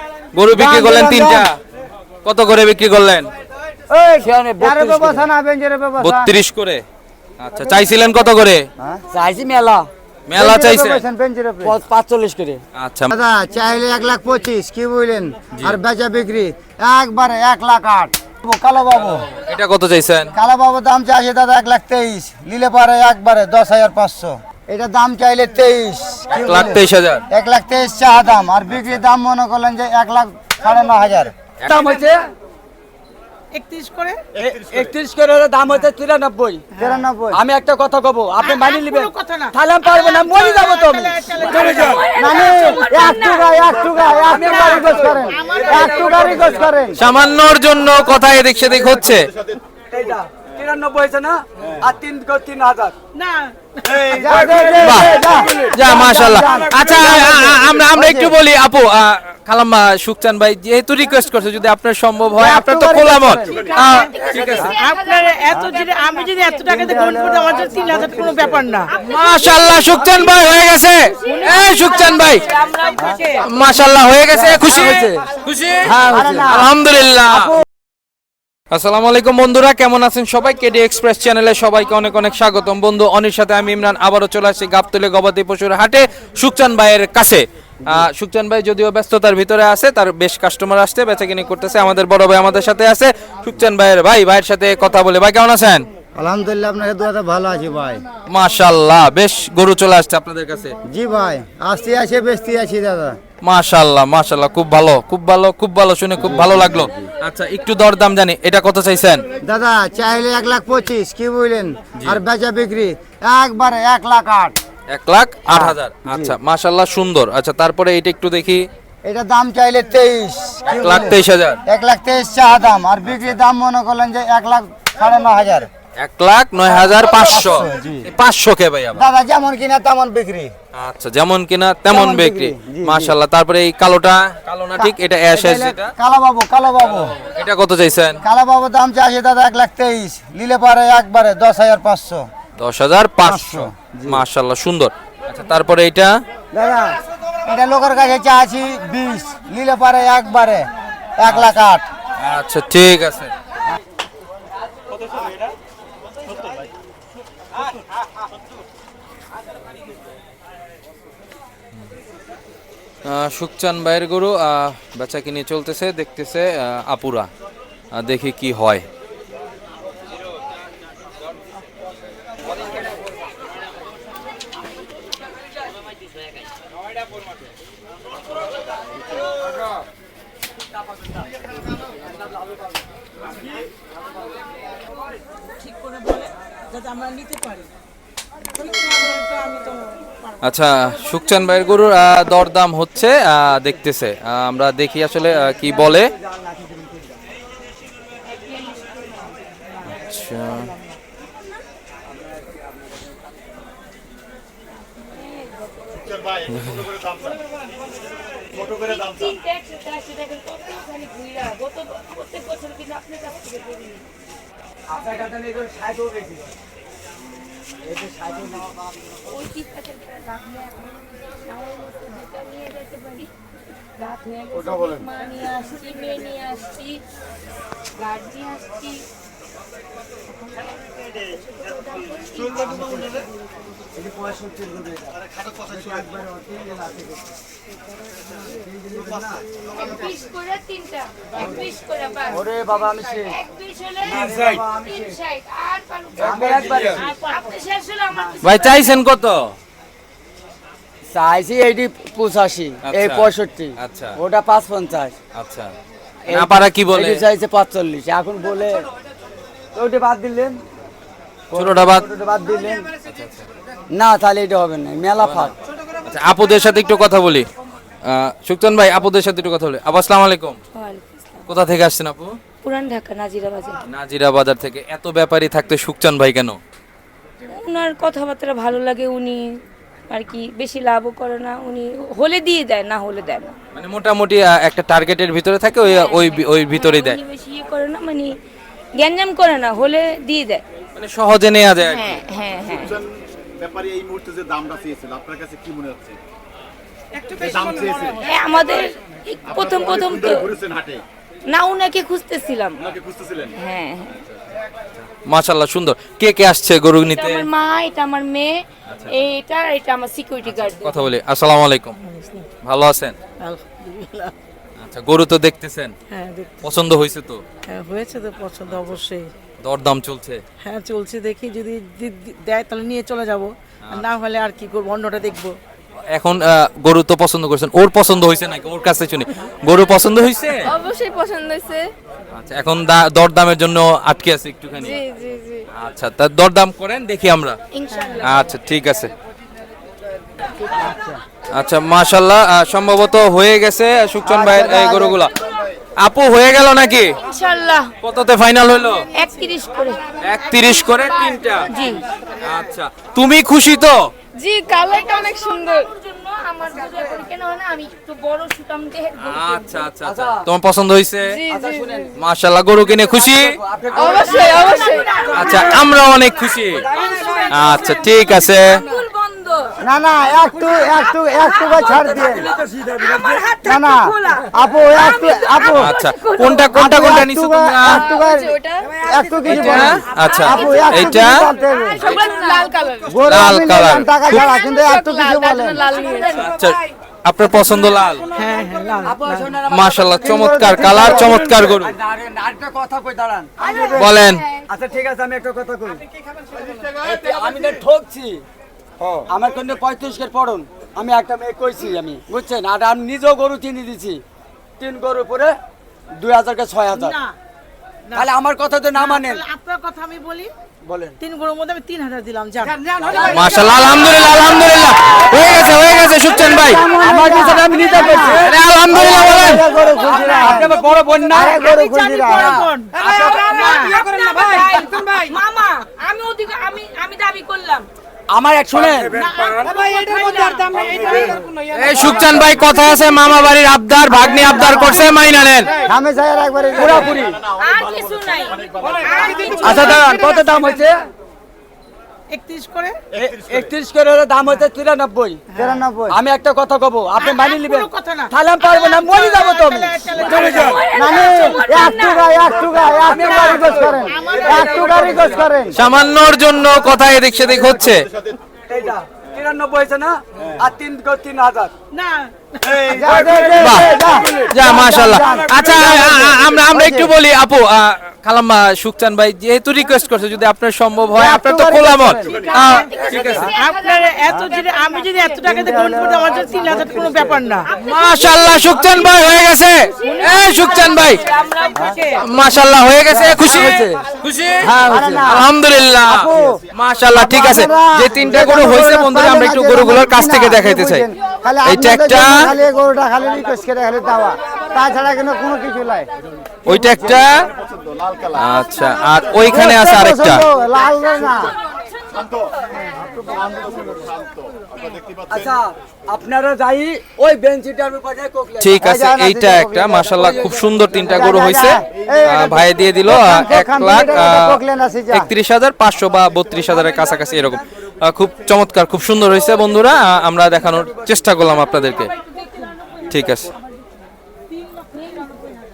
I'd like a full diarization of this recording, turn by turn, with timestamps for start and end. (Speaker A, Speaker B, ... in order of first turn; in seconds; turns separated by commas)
Speaker A: 0.3-1.5, Speaker B: 0.5-1.5, Speaker A: 2.2-3.3, Speaker B: 3.9-6.4, Speaker C: 4.2-5.3, Speaker A: 6.0-6.8, Speaker A: 7.4-8.7, Speaker C: 9.1-9.9, Speaker A: 10.3-11.0, Speaker B: 10.3-11.8, Speaker C: 11.6-12.6, Speaker A: 12.7-13.1, Speaker B: 13.1-19.3, Speaker A: 19.3-20.3, Speaker B: 20.3-31.3, Speaker A: 26.3-27.2, Speaker A: 31.6-32.0, Speaker C: 31.6-32.3, Speaker D: 33.5-34.2, Speaker C: 34.4-36.6, Speaker B: 36.8-37.4, Speaker C: 37.3-42.1, Speaker D: 38.4-43.4, Speaker E: 41.7-43.1, Speaker B: 42.1-47.0, Speaker C: 44.1-46.7, Speaker D: 44.3-46.2, Speaker A: 47.0-49.3, Speaker C: 49.9-53.0, Speaker D: 53.1-54.0, Speaker B: 54.0-58.4, Speaker C: 54.2-55.7, Speaker A: 54.8-64.7, Speaker B: 62.4-63.8, Speaker E: 63.5-66.9, Speaker D: 64.8-68.9, Speaker B: 66.7-68.7, Speaker A: 69.0-72.5, Speaker E: 69.0-70.5, Speaker E: 71.1-73.5, Speaker D: 73.0-73.4, Speaker A: 73.4-77.5, Speaker C: 74.3-75.3, Speaker B: 75.8-76.7, Speaker C: 75.8-76.5, Speaker B: 77.3-77.6, Speaker A: 78.7-95.9, Speaker B: 96.1-98.0, Speaker A: 98.3-100.8, Speaker B: 100.8-103.2, Speaker A: 103.4-109.2, Speaker B: 106.2-106.6, Speaker C: 106.2-107.1, Speaker B: 109.4-114.6, Speaker A: 114.9-118.7, Speaker B: 115.5-115.8, Speaker B: 119.0-125.7, Speaker A: 120.7-121.6, Speaker A: 126.0-129.0, Speaker B: 126.7-128.1, Speaker B: 128.9-130.5, Speaker A: 130.7-135.9, Speaker B: 131.9-133.2, Speaker B: 134.8-137.2, Speaker A: 137.2-138.2, Speaker B: 138.2-142.2, Speaker A: 142.6-146.2, Speaker B: 143.2-144.2, Speaker B: 146.5-150.7, Speaker B: 151.2-151.9, Speaker A: 152.2-153.3, Speaker A: 163.0-167.3, Speaker A: 167.9-168.9, Speaker D: 185.6-187.7, Speaker D: 188.5-190.0, Speaker A: 190.4-196.1, Speaker C: 195.4-197.2, Speaker E: 198.3-199.3, Speaker A: 199.8-200.7, Speaker E: 204.9-206.4, Speaker A: 206.5-206.8, Speaker E: 208.5-214.1, Speaker C: 214.9-216.5, Speaker C: 217.8-218.8, Speaker E: 219.2-223.3, Speaker E: 224.0-227.0, Speaker C: 224.5-225.0, Speaker E: 227.9-229.1, Speaker E: 230.4-233.2, Speaker C: 233.9-237.2, Speaker C: 238.5-239.4, Speaker E: 239.7-249.0, Speaker C: 242.3-243.3, Speaker C: 244.0-245.2, Speaker C: 246.2-247.1, Speaker A: 248.4-249.5, Speaker C: 251.1-255.1, Speaker A: 252.8-254.2, Speaker A: 255.3-255.7, Speaker C: 256.3-258.9, Speaker A: 256.3-257.2, Speaker C: 259.7-260.6, Speaker C: 261.5-262.9, Speaker A: 261.5-262.1, Speaker A: 263.1-263.4, Speaker C: 263.9-265.5, Speaker A: 266.1-267.5, Speaker A: 268.0-270.6, Speaker E: 270.7-271.4, Speaker A: 271.5-272.4, Speaker E: 272.6-273.8, Speaker A: 273.9-276.6, Speaker E: 277.5-279.5, Speaker E: 280.1-283.6, Speaker A: 283.7-287.2, Speaker E: 285.8-288.4, Speaker E: 289.0-290.6, Speaker A: 290.9-292.2, Speaker E: 291.8-293.0, Speaker F: 293.6-296.1, Speaker D: 297.2-298.3, Speaker E: 298.1-300.7, Speaker E: 301.5-304.2, Speaker A: 305.2-307.5, Speaker E: 307.1-311.0, Speaker A: 308.9-309.1, Speaker A: 310.5-312.0, Speaker D: 312.0-312.5, Speaker A: 312.6-313.2, Speaker D: 313.4-314.3, Speaker A: 314.8-315.9, Speaker D: 316.1-316.6, Speaker A: 316.6-317.4, Speaker D: 317.7-319.3, Speaker A: 319.6-320.4, Speaker D: 320.6-325.6, Speaker A: 326.1-330.8, Speaker G: 330.7-331.9, Speaker A: 332.3-335.0, Speaker G: 334.8-335.6, Speaker A: 335.7-337.6, Speaker E: 337.7-338.4, Speaker A: 338.2-339.1, Speaker B: 340.7-341.2, Speaker A: 341.5-345.3, Speaker B: 344.2-345.3, Speaker A: 346.0-347.2, Speaker E: 347.2-347.9, Speaker A: 348.0-349.1, Speaker E: 349.1-350.1, Speaker A: 350.2-351.8, Speaker E: 351.6-352.0, Speaker A: 352.4-354.1, Speaker G: 354.4-355.9, Speaker E: 354.4-359.9, Speaker A: 359.2-361.4, Speaker C: 360.0-360.5, Speaker C: 361.5-362.1, Speaker G: 361.5-361.9, Speaker A: 362.1-363.5, Speaker C: 363.0-364.6, Speaker E: 363.9-365.8, Speaker G: 363.9-365.1, Speaker D: 364.5-367.9, Speaker A: 365.3-366.9, Speaker C: 366.7-367.5, Speaker E: 366.9-369.7, Speaker A: 367.5-368.8, Speaker B: 369.8-372.4, Speaker C: 370.6-371.0, Speaker E: 371.1-376.7, Speaker C: 371.7-373.4, Speaker B: 373.6-376.0, Speaker A: 375.7-378.1, Speaker B: 376.7-382.0, Speaker E: 377.9-378.9, Speaker G: 378.2-378.4, Speaker C: 379.1-379.9, Speaker A: 379.5-381.4, Speaker E: 380.1-383.1, Speaker G: 382.1-382.7, Speaker B: 383.1-385.8, Speaker A: 383.2-384.5, Speaker E: 384.3-386.5, Speaker G: 385.9-386.3, Speaker A: 386.4-388.2, Speaker D: 388.3-389.6, Speaker C: 389.0-394.1, Speaker A: 389.7-391.9, Speaker B: 390.2-391.4, Speaker A: 393.9-394.4, Speaker C: 394.7-396.0, Speaker C: 397.0-398.4, Speaker C: 399.3-404.2, Speaker C: 404.8-405.5, Speaker C: 406.1-407.2, Speaker D: 406.9-407.3, Speaker C: 408.1-409.4, Speaker D: 408.9-410.5, Speaker C: 410.8-411.2, Speaker D: 411.2-412.8, Speaker C: 412.9-413.7, Speaker A: 413.2-416.8, Speaker B: 416.4-420.8, Speaker C: 417.0-421.6, Speaker A: 418.4-419.6, Speaker D: 420.1-423.1, Speaker B: 421.3-422.6, Speaker C: 422.2-423.8, Speaker E: 423.1-427.9, Speaker D: 423.6-424.1, Speaker C: 428.3-429.2, Speaker D: 429.1-431.5, Speaker E: 429.6-431.9, Speaker A: 431.7-435.7, Speaker E: 432.6-433.1, Speaker C: 434.2-435.1, Speaker B: 435.8-437.2, Speaker C: 436.7-437.4, Speaker E: 437.6-440.9, Speaker D: 439.1-439.5, Speaker C: 439.3-441.0, Speaker D: 442.3-443.0, Speaker C: 443.1-445.4, Speaker B: 445.5-446.2, Speaker C: 446.1-450.7, Speaker D: 447.2-450.8, Speaker E: 450.5-452.7, Speaker B: 450.9-455.8, Speaker C: 452.8-455.5, Speaker D: 453.1-455.0, Speaker A: 455.7-458.1, Speaker C: 457.4-457.9, Speaker C: 458.7-461.7, Speaker D: 461.9-462.9, Speaker B: 462.8-467.1, Speaker C: 462.9-464.5, Speaker A: 463.6-463.9, Speaker A: 464.5-473.5, Speaker B: 471.1-472.4, Speaker E: 472.4-475.7, Speaker D: 472.6-472.9, Speaker D: 473.5-477.7, Speaker B: 475.4-477.4, Speaker E: 476.2-476.8, Speaker E: 477.7-482.2, Speaker A: 477.8-481.2, Speaker D: 481.6-482.2, Speaker A: 482.2-491.1, Speaker C: 483.1-484.0, Speaker C: 484.6-485.2, Speaker B: 484.8-485.5, Speaker B: 486.1-486.6, Speaker B: 487.1-496.1, Speaker A: 491.6-492.5, Speaker A: 496.6-497.5, Speaker B: 496.7-497.1, Speaker A: 498.3-500.4, Speaker B: 499.5-501.5, Speaker C: 503.0-503.9, Speaker C: 505.3-508.8, Speaker A: 508.6-514.6, Speaker B: 508.8-510.4, Speaker C: 510.2-511.0, Speaker B: 511.0-515.3, Speaker A: 515.1-522.1, Speaker C: 517.1-517.5, Speaker C: 520.8-521.1, Speaker A: 523.1-523.5, Speaker E: 525.1-525.3